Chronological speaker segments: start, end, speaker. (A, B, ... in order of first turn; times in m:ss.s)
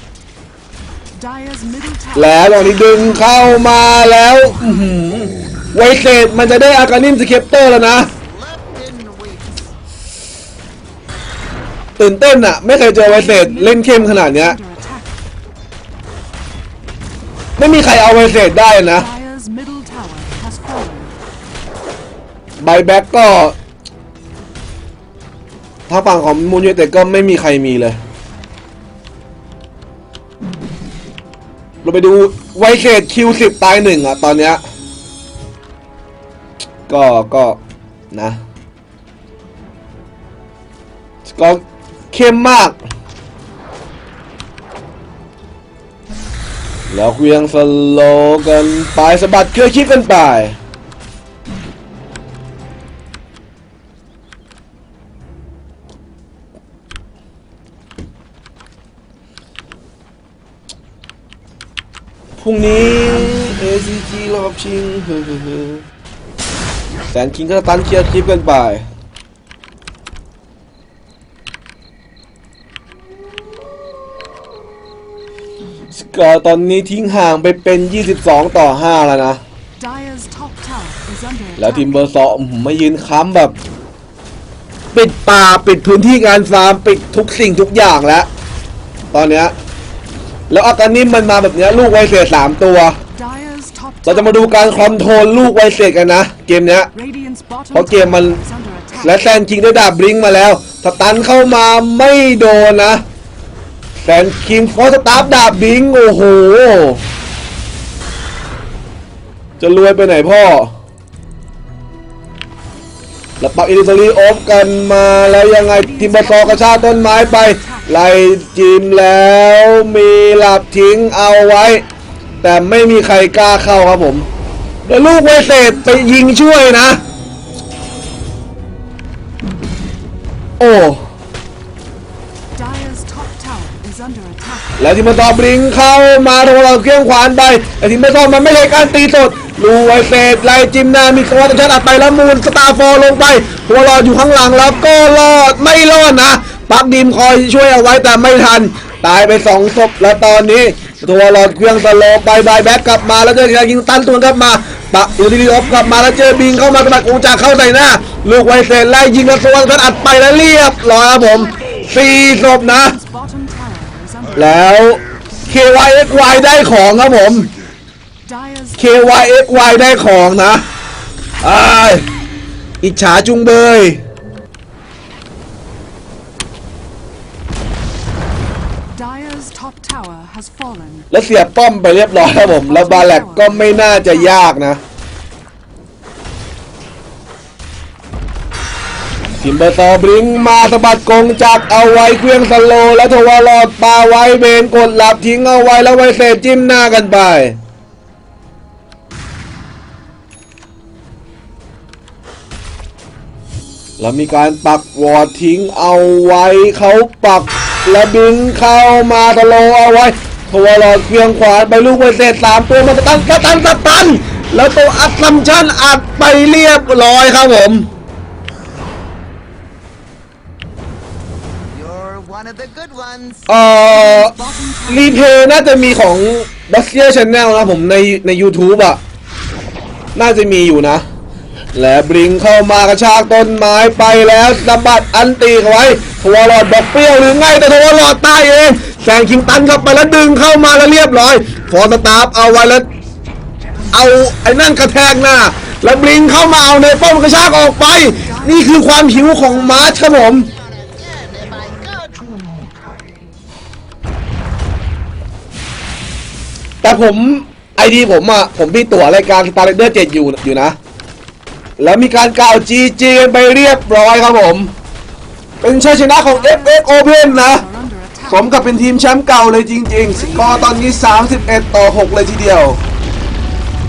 0:01.1-0:03.8 A
0:02.2-0:08.1 B
0:08.2-0:09.7 C
0:12.0-0:14.6 B
0:13.0-0:15.2 A
0:17.6-0:19.1 B
0:18.9-0:21.2 A
0:22.6-0:23.6 B
0:25.9-0:28.0 B
0:31.8-0:34.6 B
0:36.9-0:37.6 B
0:38.1-0:38.4 B
0:41.3-0:42.8 B
0:46.9-0:50.6 B
1:02.4-1:05.8 B
1:07.1-1:08.9 B
1:15.9-1:19.4 B
1:19.8-1:22.0 A
1:21.6-1:23.6 B
1:24.9-1:28.3 B
1:29.1-1:29.5 B
1:30.5-1:33.0 B
1:33.2-1:35.0 A
1:34.1-1:36.9 B
1:36.9-1:39.3 A
1:37.7-1:38.4 B
1:39.0-1:43.0 B
1:44.0-1:47.0 B
1:49.6-1:50.7 B
1:53.4-2:01.8 B
1:55.7-1:57.9 A
2:02.4-2:04.3 B
2:04.9-2:07.0 B
2:05.4-2:06.3 A
2:10.6-2:11.0 B
2:12.5-2:14.8 A
2:14.8-2:43.0 B
2:42.2-2:44.7 A
2:44.4-2:47.5 B
2:48.2-2:49.9 A
2:48.8-2:50.6 B
2:51.4-2:52.1 B
2:52.8-2:54.0 B
2:58.9-3:01.1 A
3:01.1-3:04.8 B
3:02.2-3:04.5 A
3:09.4-3:17.6 B
3:24.0-3:37.9 B
3:41.7-3:43.5 C
3:43.5-3:44.3 B
3:43.8-3:45.2 A
3:44.9-3:49.0 B
3:50.2-3:51.0 B
3:51.7-4:02.9 B
4:03.9-4:10.5 B
4:08.1-4:10.0 A
4:10.3-4:12.7 C
4:16.8-4:20.8 B
4:21.8-4:24.7 B
4:25.6-4:27.6 B
4:26.2-4:28.8 A
4:28.3-4:32.8 B
4:30.1-4:31.8 A